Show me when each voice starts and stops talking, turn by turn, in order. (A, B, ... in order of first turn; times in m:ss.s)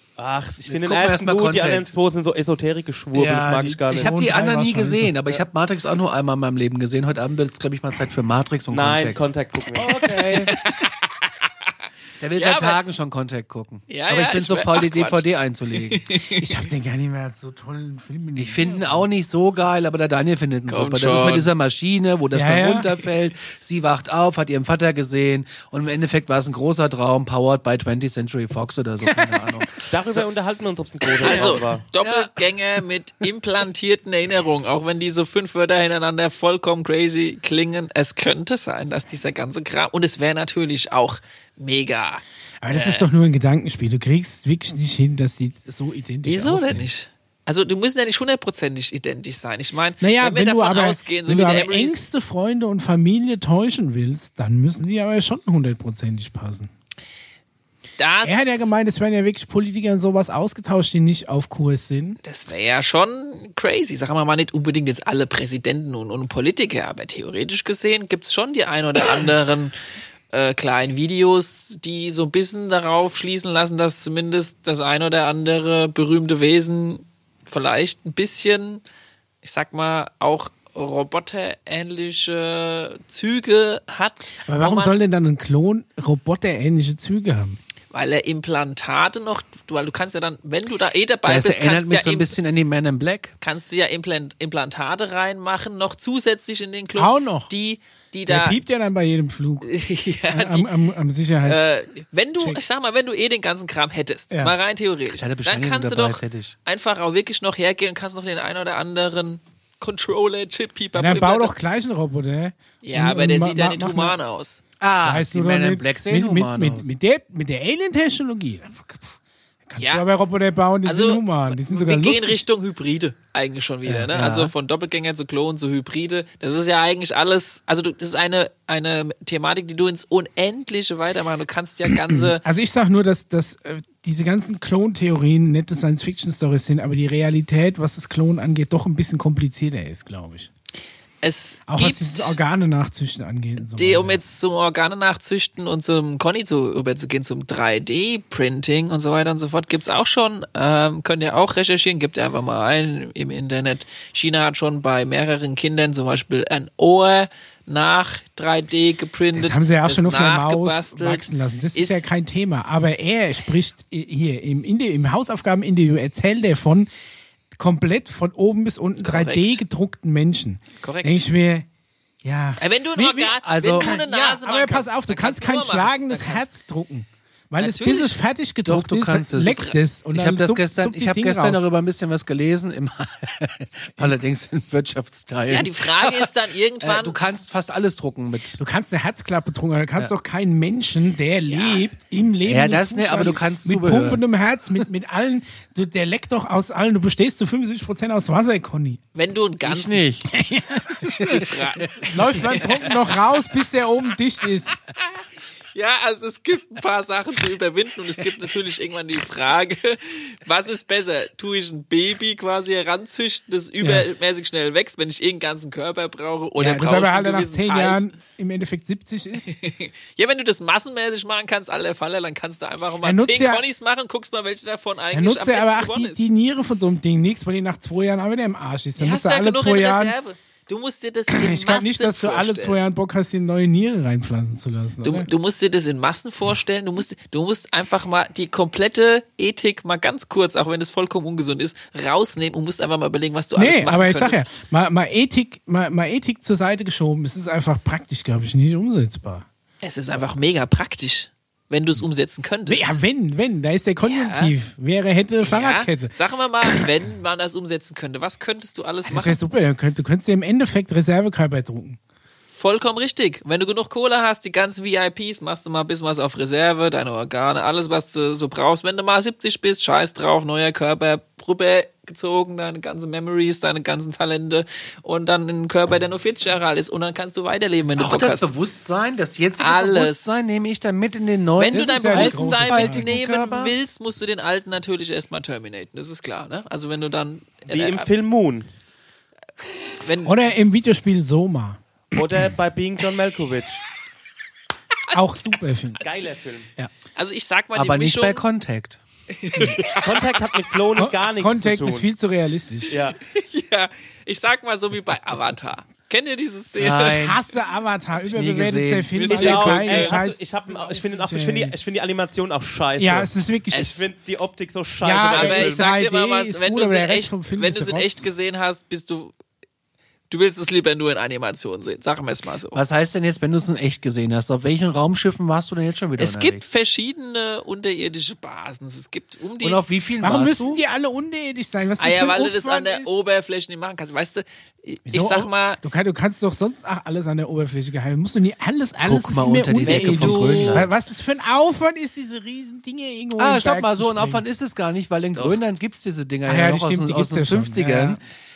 0:00.2-0:04.1 A
0:00.6-0:02.0 B
0:03.1-0:05.2 C
0:03.9-0:09.2 B
0:08.7-0:10.3 A
0:09.7-0:10.5 B
0:10.5-0:11.5 D
0:12.2-0:16.1 B
0:12.4-0:12.8 D
0:13.9-0:15.2 D
0:15.9-0:16.7 D
0:16.4-0:19.1 C
0:18.4-0:29.7 B
0:20.7-0:21.5 D
0:22.3-0:23.0 C
0:29.0-0:29.9 C
0:29.9-0:31.8 A
0:31.2-0:43.1 D
0:31.3-0:32.4 B
0:42.6-0:46.9 C
0:46.2-0:52.0 D
0:50.0-0:56.7 C
0:58.0-0:58.7 D
0:58.2-1:02.2 C
1:02.2-1:09.8 D
1:10.3-1:18.8 D
1:19.4-1:25.0 D
1:24.5-1:27.6 C
1:27.9-1:32.3 D
1:31.3-1:33.3 B
1:33.4-1:38.6 D
1:37.0-1:37.5 C
1:38.3-1:39.7 C
1:39.6-1:40.7 D
1:40.3-1:41.7 C
1:41.4-1:51.5 D
1:45.1-1:46.5 B
1:51.0-1:54.2 C
1:52.8-1:54.6 D
1:54.8-1:56.9 B
1:55.0-1:59.2 C
1:59.7-2:02.4 C
1:59.8-2:00.0 D
2:00.8-2:12.4 D
2:04.1-2:04.5 B
2:12.4-2:20.5 C
2:21.2-2:22.4 D
2:21.7-2:24.2 C
2:23.6-2:42.0 D
2:39.3-2:46.9 C
2:47.6-2:51.7 C
2:49.0-2:49.6 D
2:50.8-2:51.2 D
2:52.2-3:01.6 C
2:52.6-2:56.5 D
2:53.4-2:53.9 B
2:57.6-2:58.2 D
2:58.7-2:59.6 B
2:59.4-2:59.8 D
3:00.1-3:08.6 B
3:05.5-3:07.2 D
3:08.6-3:19.0 C
3:11.5-3:11.8 D
3:12.5-3:14.2 B
3:19.2-3:20.0 D
3:19.6-3:20.3 B
3:20.3-3:21.4 C
3:21.2-3:23.2 D
3:21.2-3:22.2 B
3:22.0-3:24.7 C
3:25.8-3:38.0 D
3:36.6-3:39.5 C
3:39.5-3:46.2 D
3:43.0-3:43.6 C
3:45.1-3:50.2 C
3:49.0-3:52.8 D
3:51.3-3:55.3 C
3:55.0-4:04.5 D
4:03.6-4:09.5 C
4:09.8-4:13.0 D
4:12.7-4:16.1 C
4:14.0-4:14.5 D
4:15.4-4:19.4 D
4:16.6-4:16.9 C
4:19.1-4:22.0 C
4:22.6-4:38.4 D
4:38.0-4:43.8 B
4:39.6-4:40.3 D
4:41.6-4:48.1 D
4:41.7-4:43.1 C
4:47.7-4:48.7 A
4:50.0-4:50.3 D
4:50.2-4:51.8 C
4:52.1-4:53.8 A
4:55.1-4:56.0 C
4:56.0-4:56.7 A
4:57.2-4:58.4 D
4:57.7-4:59.0 B
4:59.4-5:00.6 D
5:00.0-5:02.1 A
5:01.0-5:03.0 C
5:02.9-5:03.2 A
5:03.3-5:07.4 D
5:06.8-5:07.4 B
5:06.9-5:11.8 C
5:08.3-5:09.9 B
5:09.3-5:15.8 A
5:09.3-5:10.2 D
5:13.0-5:14.0 C
5:15.0-5:18.3 C
5:15.3-5:19.3 D
5:20.3-5:22.8 D
5:22.7-5:26.7 B
5:26.2-5:29.8 D
5:29.6-5:30.8 B
5:30.2-5:33.1 C
5:32.0-5:35.8 D
5:35.1-5:44.4 C
5:39.0-5:40.9 B
5:39.8-5:40.9 D
5:43.4-5:48.2 B
5:46.5-5:48.2 C